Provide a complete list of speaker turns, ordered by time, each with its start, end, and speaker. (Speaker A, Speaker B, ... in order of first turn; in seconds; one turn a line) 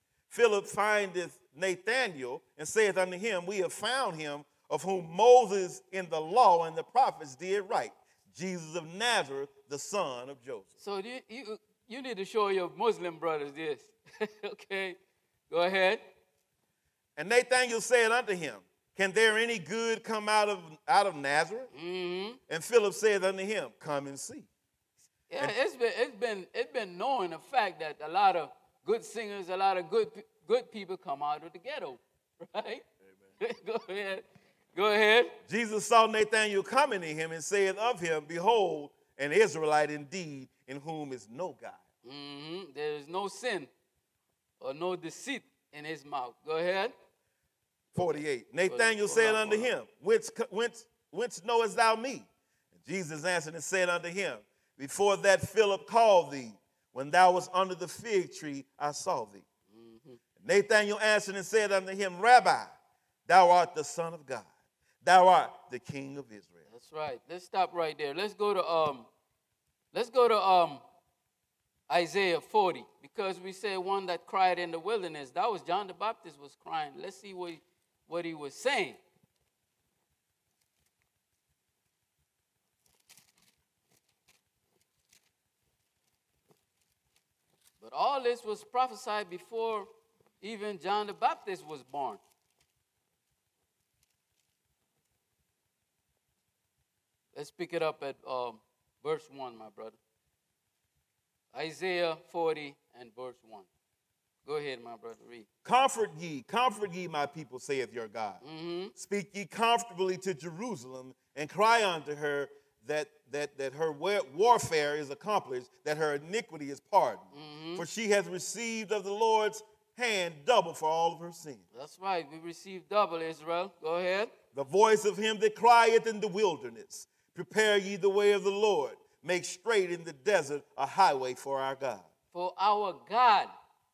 Speaker A: 0.3-10.7
Speaker B: 10.8-15.0
Speaker B: 15.5-16.0
Speaker A: 17.1-21.7
Speaker B: 21.7-22.4
Speaker A: 22.5-24.5
Speaker B: 25.3-32.8
Speaker B: 33.4-35.3
Speaker A: 35.5-41.8
Speaker B: 42.0-43.7
Speaker B: 44.6-46.9
Speaker B: 47.9-49.7
Speaker A: 47.9-59.4
Speaker B: 59.7-60.2
Speaker A: 60.4-62.7
Speaker A: 63.2-64.5
Speaker A: 65.0-66.6
Speaker B: 66.7-69.1
Speaker B: 69.9-70.8
Speaker B: 71.9-79.0
Speaker B: 87.8-89.9
Speaker B: 90.4-92.2
Speaker B: 97.3-100.0
Speaker B: 101.5-103.7
Speaker B: 104.4-105.5
Speaker A: 105.6-108.4
Speaker B: 108.4-108.9
Speaker A: 109.0-121.6
Speaker B: 117.3-117.8
Speaker B: 121.7-124.3
Speaker A: 124.5-132.1
Speaker B: 132.3-133.5